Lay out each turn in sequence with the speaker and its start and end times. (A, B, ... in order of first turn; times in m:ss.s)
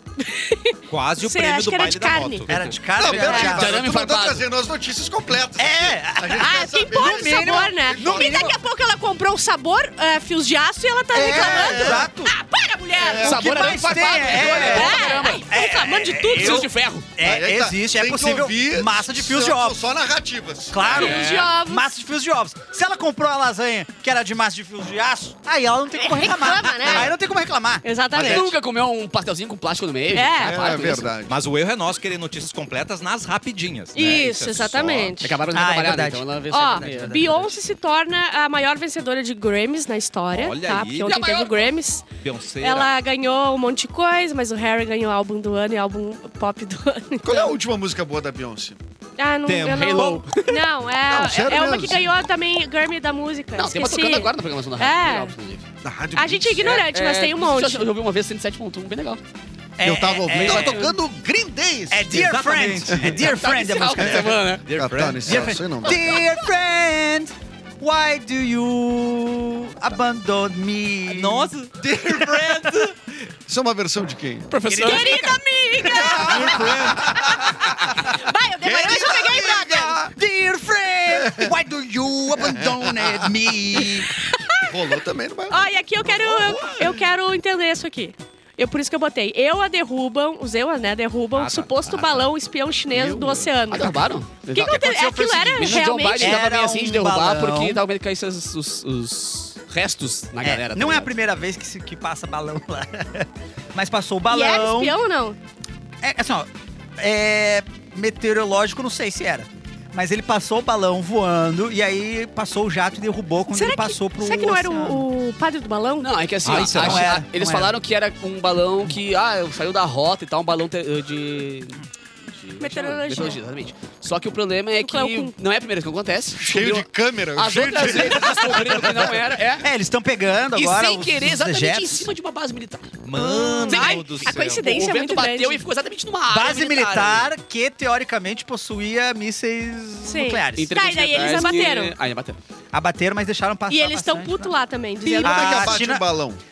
0:00.2-0:02.5 A
0:00.9-0:02.7 B
0:02.5-0:03.8 C
0:02.9-0:08.5 D
0:03.0-0:04.4 E
0:03.1-0:03.5 A
0:05.6-0:08.5 C
0:06.4-0:16.7 A
0:11.1-0:12.1 D
0:11.1-0:12.4 C
0:12.9-0:13.7 D
0:13.1-0:19.8 C
0:13.2-0:15.5 E
0:16.3-0:17.1 E
0:17.2-0:20.9 D
0:20.7-0:28.5 C
0:20.9-0:21.9 A
0:21.0-0:21.5 E
0:26.0-0:27.1 A
0:27.8-0:28.5 A
0:28.2-0:31.1 E
0:30.1-0:30.6 A
0:30.4-0:31.4 D
0:31.3-0:35.2 B
0:33.9-0:35.4 A
0:35.2-0:37.6 E
0:35.5-0:37.3 C
0:36.5-0:42.1 A
0:40.3-0:41.3 B
0:41.0-0:41.7 E
0:42.2-0:42.9 B
0:42.6-0:47.5 A
0:47.2-0:48.8 D
0:49.2-0:55.3 A
0:49.4-0:50.1 B
0:49.6-0:50.6 E
0:51.1-0:52.1 D
0:53.6-0:55.6 E
0:55.8-0:56.8 D
0:56.1-0:57.9 A
0:56.6-0:59.2 E
0:59.8-1:00.9 C
0:59.8-1:02.2 D
1:00.3-1:01.0 E
1:01.9-1:04.4 C
1:02.1-1:03.2 B
1:03.2-1:05.2 E
1:04.0-1:06.2 D
1:04.7-1:05.5 B
1:05.2-1:11.5 C
1:11.1-1:13.1 B
1:12.1-1:12.8 C
1:13.5-1:14.5 D
1:14.5-1:15.3 E
1:14.6-1:15.3 C
1:14.8-1:16.7 A
1:15.8-1:17.7 B
1:16.0-1:16.9 C
1:16.2-1:17.3 D
1:18.0-1:20.0 A
1:18.6-1:20.1 D
1:20.0-1:24.1 C
1:21.1-1:21.5 D
1:22.4-1:23.3 D
1:24.1-1:36.4 A
1:24.6-1:27.0 D
1:31.3-1:32.3 B
1:32.9-1:33.5 D
1:33.7-1:34.8 E
1:34.6-1:37.8 C
1:35.6-1:41.1 E
1:40.4-1:45.0 C
1:44.3-1:45.4 A
1:46.0-1:55.1 C
1:53.5-1:56.6 A
1:56.0-2:09.7 E
1:56.4-1:57.2 B
1:56.7-1:57.8 C
2:02.6-2:03.4 A
2:04.8-2:05.3 A
2:06.4-2:09.2 D
2:09.6-2:12.1 C
2:10.5-2:13.0 E
2:13.0-2:14.7 B
2:13.1-2:15.6 A
2:13.7-2:17.3 E
2:16.3-2:21.6 C
2:20.0-2:21.9 A
2:20.6-2:22.4 E
2:22.7-2:24.5 C
2:23.7-2:25.8 A
2:25.2-2:26.4 D
2:25.2-2:26.0 C